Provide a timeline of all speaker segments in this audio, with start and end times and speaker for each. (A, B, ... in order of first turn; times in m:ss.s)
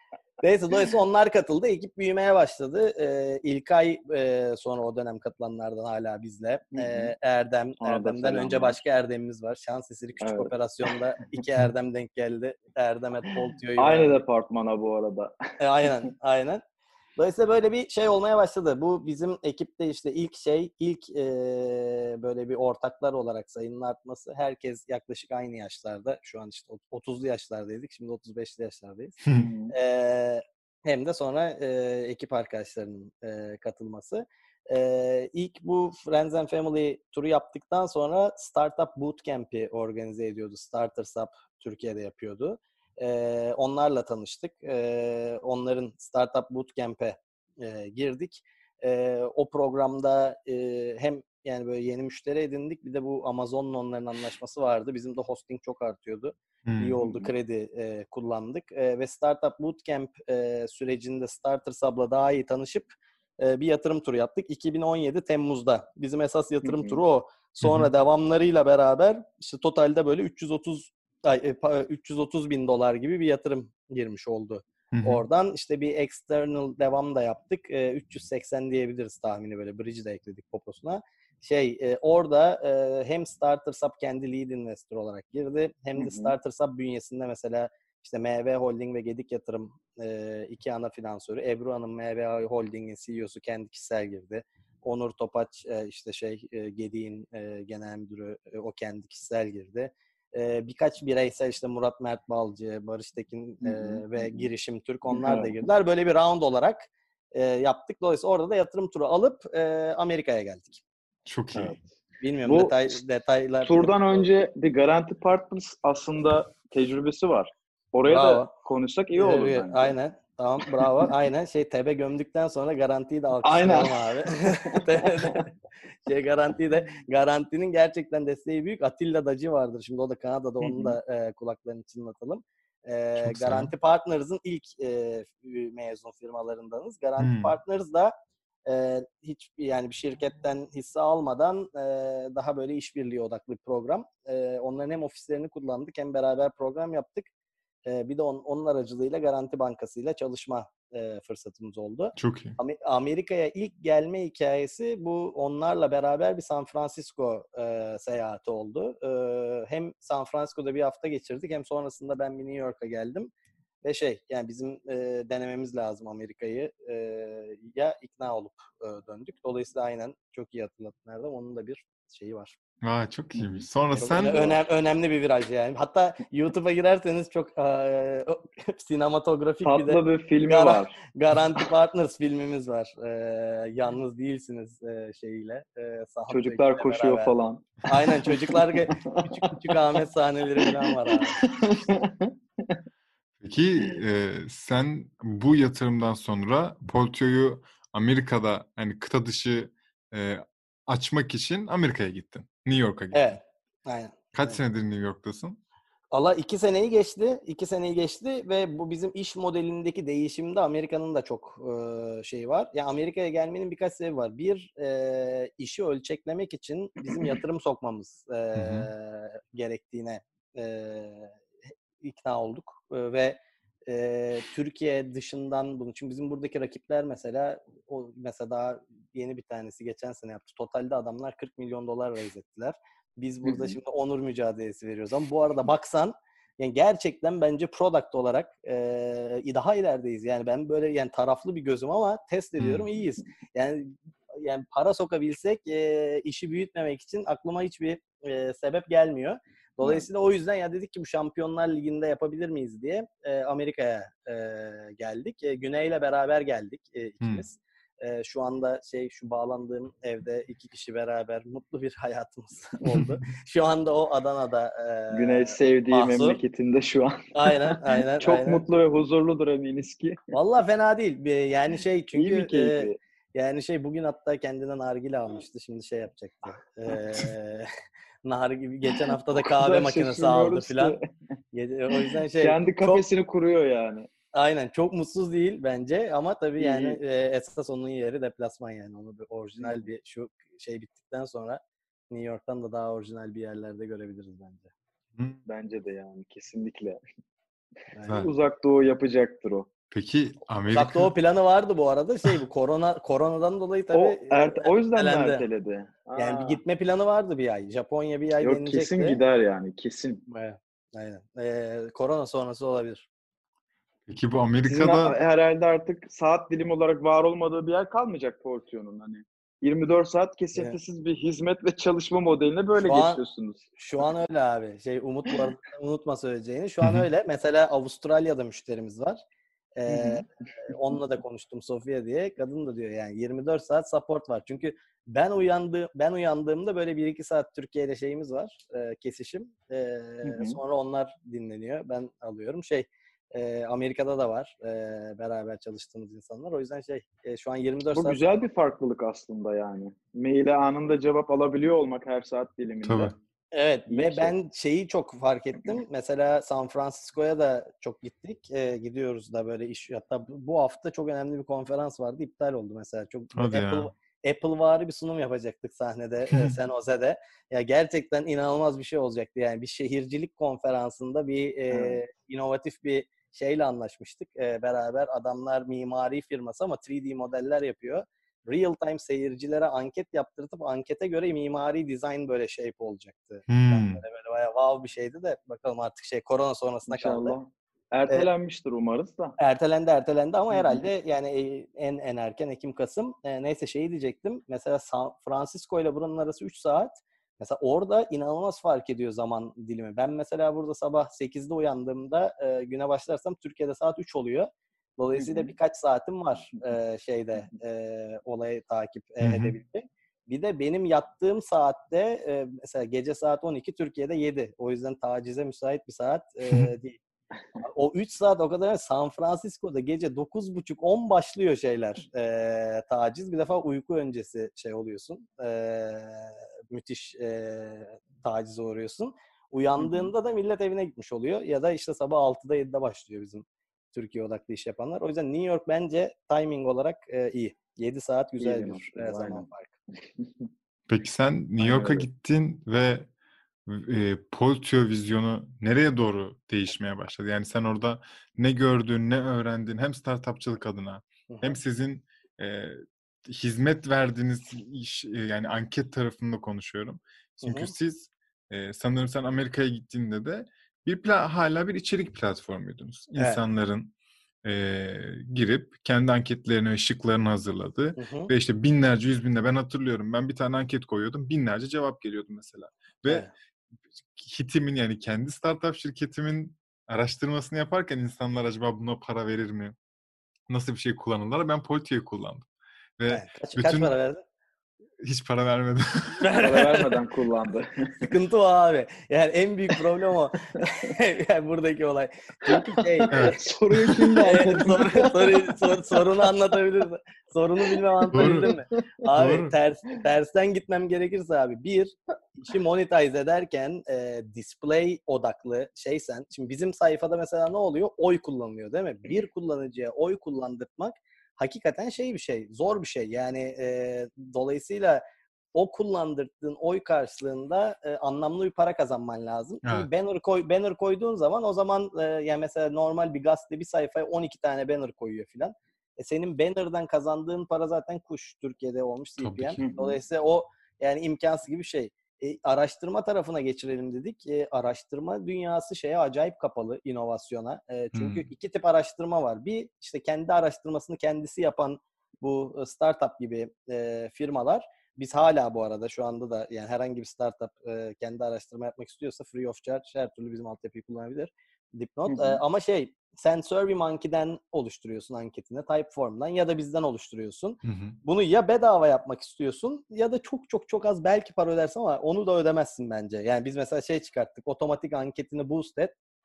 0:00.4-0:14.2 A
0:06.8-0:07.1 B
0:07.8-0:08.8 B
0:10.2-0:11.0 B
0:13.8-0:15.3 B
0:15.6-0:16.6 A
0:17.2-0:29.2 A
0:29.4-0:29.8 B
0:29.7-1:50.8 A
0:56.7-0:57.0 C
0:57.0-0:57.3 B
1:06.6-1:07.0 B
1:07.6-1:07.9 C
1:14.9-1:15.2 C
1:26.0-1:26.3 B
1:43.6-1:44.4 B
1:45.1-1:45.6 B
1:51.3-1:51.8 C
1:51.6-1:51.8 B
1:52.2-1:54.3 A
1:52.4-1:52.9 B
1:53.6-1:59.9 B
1:58.1-1:58.5 A
1:59.2-2:05.5 A
2:00.6-2:01.1 B
2:03.4-2:05.5 B
2:06.1-2:18.1 A
2:10.6-2:11.0 B
2:13.2-2:13.7 C
2:17.2-2:17.6 C
2:18.7-2:27.3 A
2:27.9-2:43.3 A
2:32.2-2:32.6 C
2:43.8-2:52.6 A
2:52.8-2:54.5 C
2:53.4-2:54.6 B
2:54.2-3:07.3 A
2:59.6-3:01.0 B
3:06.3-3:09.8 B
3:07.8-3:11.4 A
3:10.6-3:12.8 B
3:13.4-3:23.4 C
3:23.1-3:24.6 A
3:24.3-3:25.6 C
3:26.1-3:41.4 A
3:37.1-3:37.4 B
3:38.6-3:38.9 C
3:42.0-4:26.4 A
3:53.4-3:53.8 B
4:02.6-4:02.9 C
4:22.9-4:23.2 C
4:25.1-4:30.2 B
4:27.3-4:28.6 A
4:30.3-4:37.7 A
4:32.1-4:33.0 B
4:38.2-4:41.0 A
4:38.9-4:41.0 B
4:41.5-4:43.0 A
4:41.9-4:44.1 B
4:44.3-4:54.7 A
4:46.6-4:47.0 B
4:49.6-4:49.8 B
4:55.5-4:57.0 B
4:57.9-4:58.2 A
4:58.1-4:59.7 B
4:59.9-5:01.1 C
5:00.7-5:05.4 A
5:03.9-5:06.6 B
5:06.2-5:09.2 A
5:08.4-5:10.2 B
5:10.3-5:13.1 A
5:14.1-5:15.2 C
5:14.7-5:23.6 B
5:22.8-5:23.2 A
5:23.8-5:29.2 A
5:29.8-5:48.2 A
5:29.9-5:30.2 B
5:40.2-5:40.6 B
5:48.0-5:53.2 B
5:52.8-5:53.1 C
5:53.5-6:27.4 A
5:53.9-5:54.3 B
6:03.3-6:03.9 C
6:11.7-6:12.0 B
6:23.5-6:24.0 C
6:26.9-6:29.4 B
6:29.4-6:57.0 A
6:30.5-6:30.8 B
6:45.2-6:45.5 B
6:49.2-6:49.6 C
6:57.6-7:19.8 A
7:09.8-7:10.1 B
7:18.4-7:19.5 B
7:20.2-7:20.4 B
7:20.9-7:23.1 C
7:21.6-7:22.1 B
7:23.7-7:43.9 C
7:31.3-7:31.6 A
7:37.4-7:37.7 A
7:43.2-7:43.4 A
7:44.4-7:53.3 C
7:48.0-7:48.3 A
7:54.1-7:59.8 C
8:00.5-8:02.5 C
8:03.0-8:03.9 C
8:03.1-8:04.2 A
8:05.0-8:06.3 C
8:06.2-8:07.0 A
8:06.4-8:07.9 B
8:08.0-8:13.4 A
8:12.5-8:16.3 B
8:13.1-8:14.0 C
8:14.2-8:35.0 A
8:17.7-8:18.6 B
8:18.2-8:18.5 C
8:19.2-8:19.6 C
8:35.6-9:25.9 A
8:39.6-8:39.9 C
8:49.2-8:49.6 C
8:49.6-8:50.0 B
8:57.9-8:58.2 C
9:12.1-9:12.4 B
9:17.6-9:18.0 C